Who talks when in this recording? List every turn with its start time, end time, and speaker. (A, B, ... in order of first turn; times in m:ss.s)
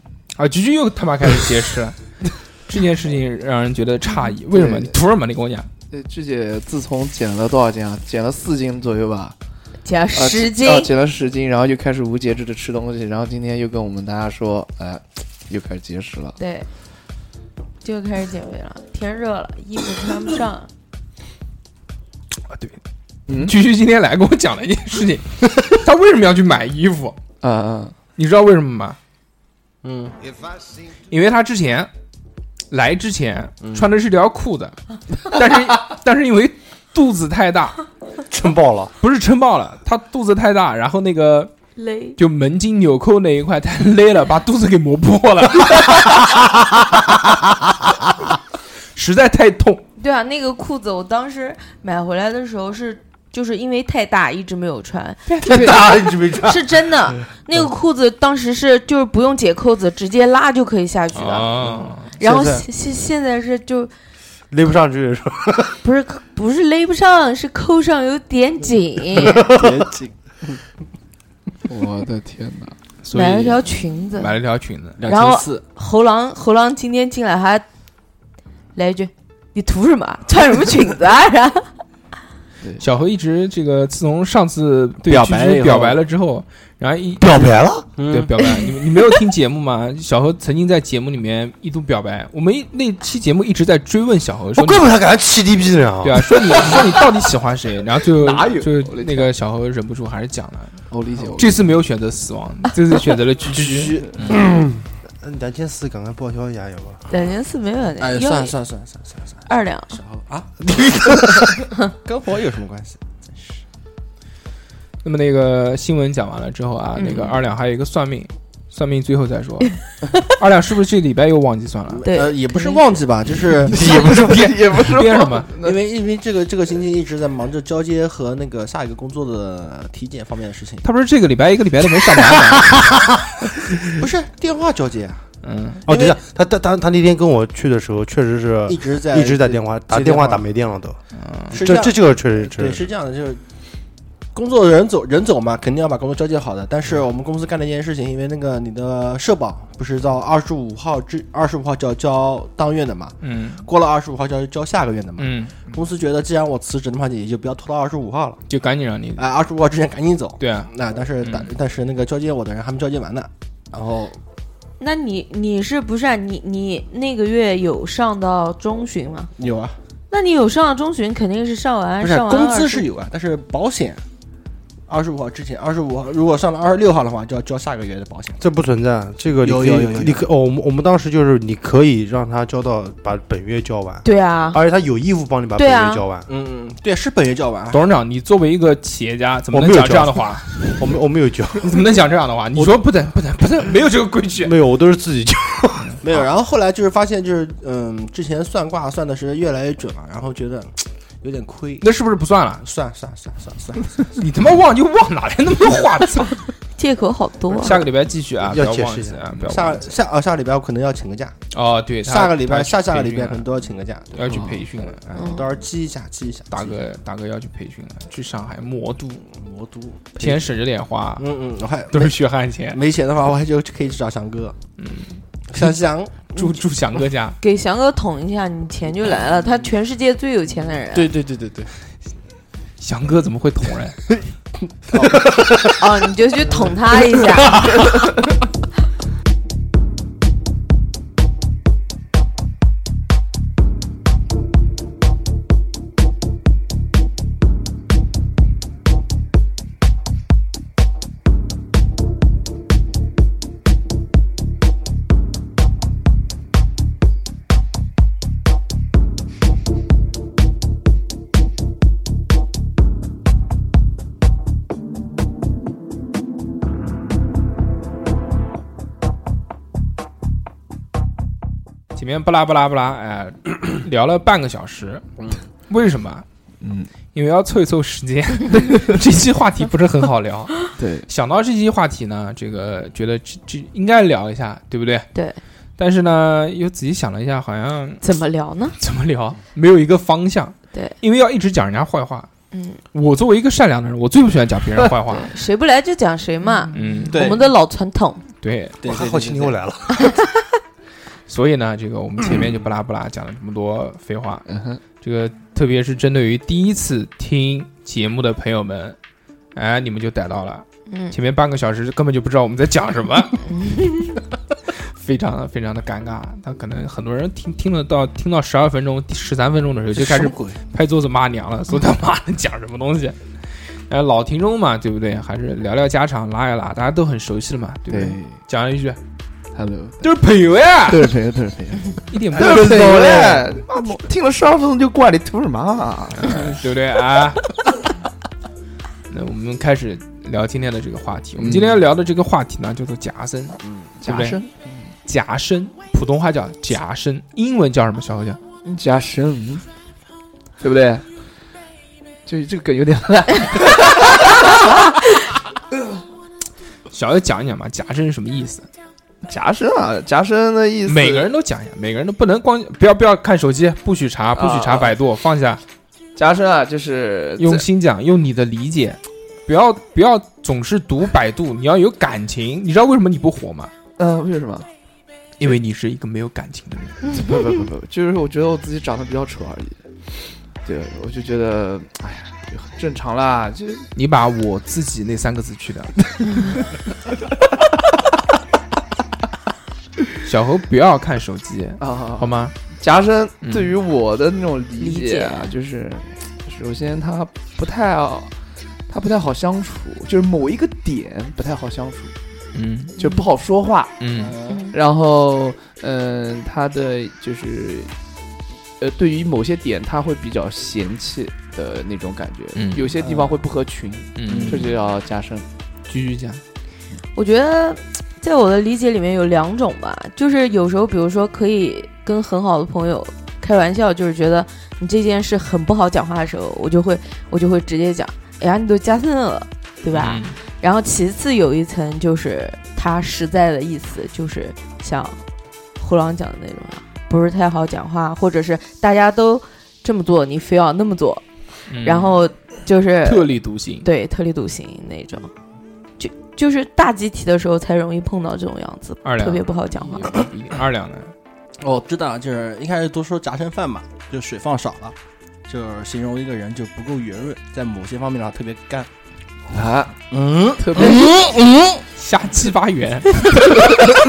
0:00.3-0:02.0 A
0:02.6-0:05.7 A
0:04.5-0:05.0 B
0:05.9-0:09.4 B
0:09.8-0:10.9 C
0:10.1-0:16.4 B
0:16.4-0:16.7 C
0:17.8-0:20.7 C
0:22.5-0:22.8 A
0:23.3-0:23.5 B
0:23.3-0:27.2 A
0:27.4-0:27.9 B
0:28.2-0:29.0 A
0:29.8-0:30.2 D
0:31.1-0:31.9 A
0:32.7-0:37.8 A
0:33.6-0:33.9 D
0:38.3-0:38.9 E
0:39.0-0:41.5 A
0:41.8-0:42.2 C
0:42.2-0:46.2 A
0:48.9-0:49.8 A
0:50.0-1:01.6 C
0:55.3-0:55.6 A
0:55.4-0:56.6 E
1:01.1-1:02.1 A
1:01.7-1:02.6 E
1:02.2-1:03.9 C
1:04.5-1:05.8 E
1:05.8-1:09.4 C
1:09.2-1:09.8 E
1:09.4-1:10.6 D
1:11.6-1:12.7 B
1:13.0-1:15.0 A
1:13.1-1:14.4 C
1:15.0-1:15.6 D
1:15.1-1:17.6 C
1:18.7-1:21.7 C
1:22.8-1:27.5 A
1:25.0-1:26.0 D
1:27.2-1:27.9 E
1:28.0-1:28.3 D
1:28.1-1:34.9 A
1:34.6-1:36.9 E
1:36.0-1:40.8 A
1:38.1-1:39.3 B
1:40.9-1:41.7 B
1:41.4-1:44.4 A
1:43.6-1:47.0 E
1:47.1-1:48.5 C
1:48.0-1:53.6 D
1:49.5-1:50.0 C
1:55.0-2:02.0 A
1:57.0-1:57.4 C
2:01.9-2:04.5 D
2:02.0-2:02.8 C
2:03.7-2:05.8 B
2:03.9-2:05.5 A
2:05.6-2:10.8 D
2:10.8-2:12.9 A
2:13.9-2:15.2 D
2:15.4-2:15.8 A
2:15.9-2:16.2 D
2:15.9-2:21.0 E
2:18.7-2:20.4 D
2:21.1-2:21.6 A
2:21.5-2:22.8 E
2:21.5-2:23.4 D
2:24.3-2:38.4 D
2:33.2-2:33.6 A
2:35.2-2:35.6 A
2:38.5-2:39.2 A
2:39.2-2:44.2 D
2:40.4-2:40.7 A
2:41.2-2:41.5 A
2:44.8-2:49.3 C
2:49.4-2:49.8 D
2:50.1-2:52.9 C
2:52.0-2:54.0 D
2:54.9-2:58.4 D
2:58.4-3:06.2 E
2:59.4-3:00.2 D
3:04.0-3:04.6 C
3:05.6-3:06.0 C
3:06.3-3:07.8 D
3:07.7-3:10.8 A
3:09.5-3:11.9 E
3:11.6-3:14.5 A
3:14.4-3:16.2 E
3:16.0-3:21.9 D
3:21.8-3:22.6 A
3:22.6-3:24.2 D
3:24.2-3:26.4 A
3:26.8-3:27.8 C
3:27.6-3:29.9 A
3:28.4-3:29.4 E
3:29.4-3:31.3 D
3:31.5-3:33.4 A
3:32.0-3:34.2 D
3:34.1-3:35.3 A
3:34.2-3:34.7 B
3:34.9-3:36.8 D
3:35.1-3:35.5 C
3:36.5-3:39.2 A
3:39.2-3:40.4 D
3:40.2-3:41.2 A
3:41.2-3:42.2 D
3:41.9-3:42.8 A
3:42.7-3:44.6 D
3:44.8-3:45.8 A
3:45.5-3:46.2 D
3:46.3-3:47.4 A
3:47.4-3:51.1 C
3:50.9-3:51.8 D
3:52.8-3:54.2 A
3:54.9-3:55.7 D
3:55.6-3:57.7 C
3:57.5-3:57.8 D
4:31.9-4:35.0 A
4:35.7-4:36.2 A
4:36.6-4:36.9 B
4:37.1-4:45.1 A
4:40.8-4:41.1 B
4:45.1-4:45.4 C
4:45.8-4:48.0 A
4:48.0-4:48.8 C
4:48.8-4:52.3 A
4:50.7-4:51.0 C
4:52.5-4:52.8 C
4:52.9-4:55.3 A
4:55.1-4:58.2 C
4:56.7-4:57.3 A
4:57.1-4:57.5 D
4:58.4-4:58.8 A
4:58.8-4:59.6 D
4:58.8-5:00.1 E
4:59.9-5:00.5 C
5:01.3-5:04.4 A
5:04.5-5:04.8 B
5:05.0-5:09.0 A
5:09.5-5:13.4 A
5:10.9-5:11.1 C
5:13.5-5:14.2 C
5:14.7-5:23.2 A
5:19.9-5:20.6 D
5:23.9-5:29.0 A
5:27.9-5:28.4 B
5:29.5-5:30.0 B
5:30.0-5:31.1 A
5:30.9-5:36.6 B
5:32.1-5:32.7 A
5:32.4-5:33.6 E
5:36.2-5:37.5 A
5:39.1-5:44.4 A
5:41.4-5:41.8 B
5:43.6-5:43.9 D
5:44.0-5:44.9 B
5:45.0-5:48.4 A
5:48.6-5:49.6 B
5:50.6-5:51.0 B
5:52.2-5:54.7 B
5:56.9-5:58.7 A
5:59.2-6:01.3 B
6:00.8-6:05.6 A
6:04.4-6:04.9 B
6:06.2-6:07.6 B
6:07.4-6:13.7 A
6:14.0-6:14.7 B
6:15.4-6:17.1 A
6:17.1-6:23.9 B
6:23.9-6:26.0 A
6:30.2-6:32.5 A
6:31.8-6:38.3 B
6:33.4-6:33.7 A
6:34.8-6:35.5 C
6:38.9-6:42.1 B
6:42.5-6:42.9 A
6:43.0-6:44.0 B
6:43.0-6:43.3 C
6:44.0-6:44.3 A
6:44.2-6:44.7 D
6:44.5-6:44.8 C
6:44.7-6:47.9 B
6:48.8-6:55.4 B
6:52.5-6:53.0 A
6:53.0-6:53.3 D
6:54.2-6:54.7 A
6:54.3-6:54.6 D
6:55.9-6:56.4 A
6:57.1-7:15.2 C
7:09.9-7:10.4 A
7:15.8-7:21.2 C
7:21.7-7:22.2 A
7:21.8-7:25.3 C
7:23.0-7:23.8 A
7:26.0-7:30.2 C
7:29.0-7:31.1 A
7:31.6-7:35.0 D
7:35.5-7:38.9 D
7:39.5-7:40.0 B
7:40.1-7:41.8 D
7:40.6-7:41.1 B
7:42.0-7:43.4 A
7:43.4-7:43.6 C